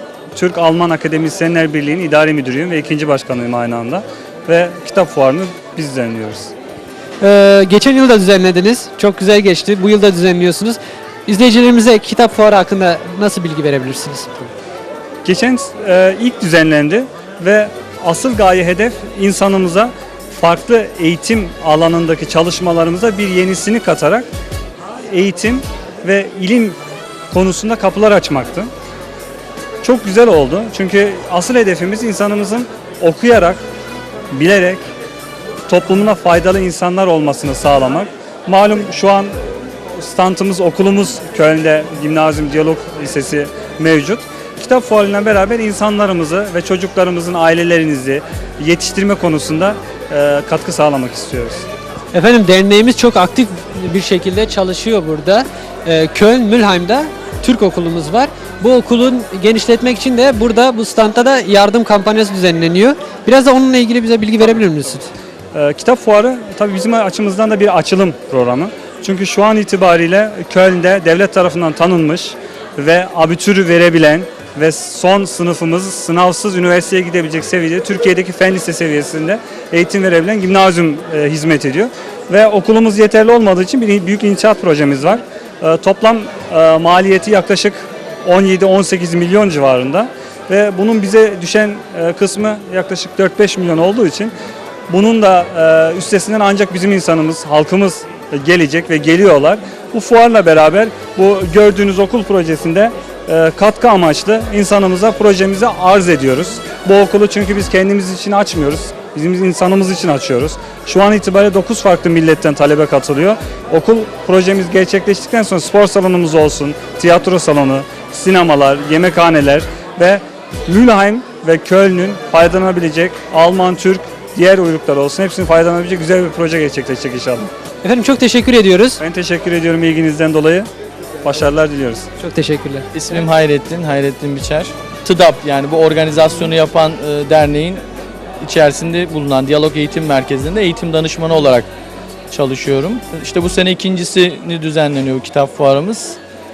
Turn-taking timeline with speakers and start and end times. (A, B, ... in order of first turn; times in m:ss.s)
0:00.3-0:06.5 A
0:07.2-0:14.5 B
0:15.2-0:24.3 A
0:25.1-0:26.8 A
0:27.3-0:28.7 A
0:29.8-0:33.6 A
0:34.3-0:34.8 A
0:35.7-0:39.3 A
0:40.0-0:51.7 A
0:52.1-1:05.1 B
1:05.5-1:34.3 A
1:34.9-2:07.5 A
2:07.8-2:09.0 B
2:09.0-2:10.7 A
2:11.2-2:12.1 A
2:12.2-2:12.9 B
2:12.9-2:17.8 C
2:18.4-2:21.7 C
2:22.3-2:26.2 C